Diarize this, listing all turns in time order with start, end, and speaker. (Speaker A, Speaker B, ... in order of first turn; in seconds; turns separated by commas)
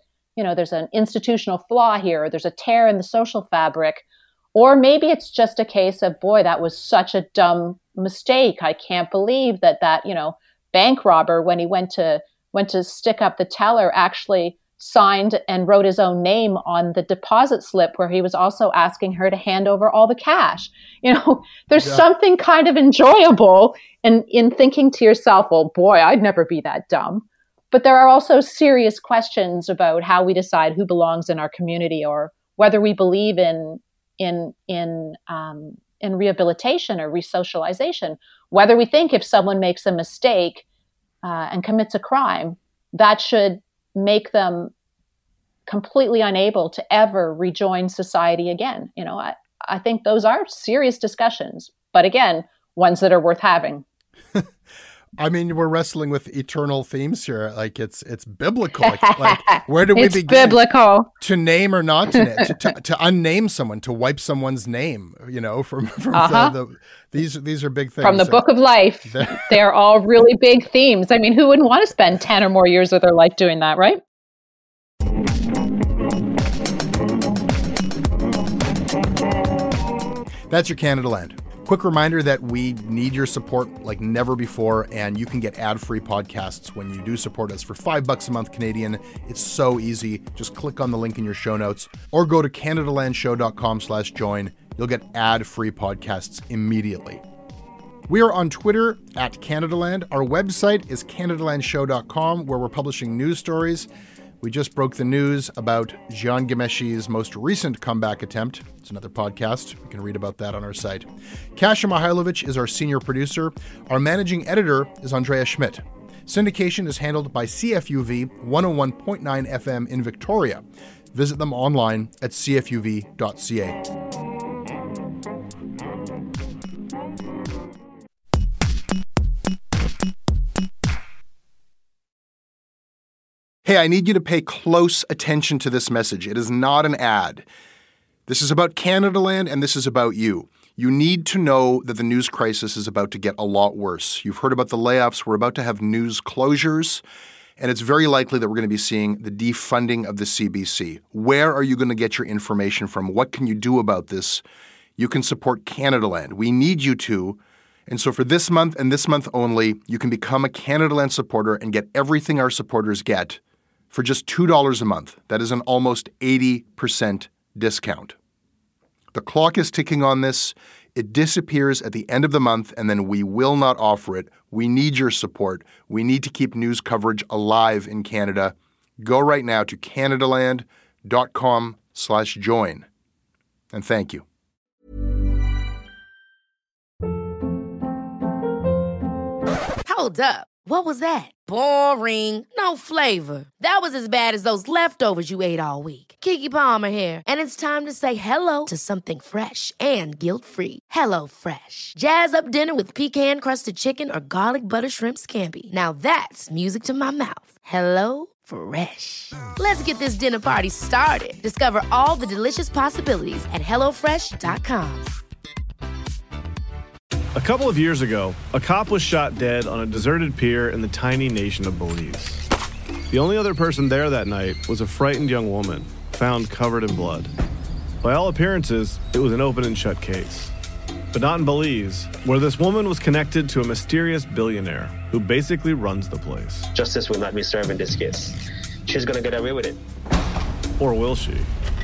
Speaker A: 0.3-40.6, Speaker A: 41.2-44.7, Speaker A: 45.7-53.8, Speaker B: 55.2-60.6, Speaker A: 58.8-61.1, Speaker B: 61.2-68.5, Speaker A: 66.1-66.5, Speaker A: 68.0-74.0, Speaker B: 69.0-69.6, Speaker B: 80.5-97.2, Speaker B: 98.1-103.9, Speaker B: 104.4-123.8, Speaker B: 133.6-137.5, Speaker B: 138.3-147.0, Speaker B: 147.6-154.4, Speaker B: 155.0-163.4, Speaker B: 163.9-168.2, Speaker B: 169.1-182.8, Speaker B: 183.7-184.2, Speaker C: 189.8-215.1, Speaker D: 217.3-222.4, Speaker D: 223.1-227.3, Speaker D: 228.0-230.5, Speaker D: 231.1-236.7, Speaker E: 236.7-239.8, Speaker D: 240.8-241.5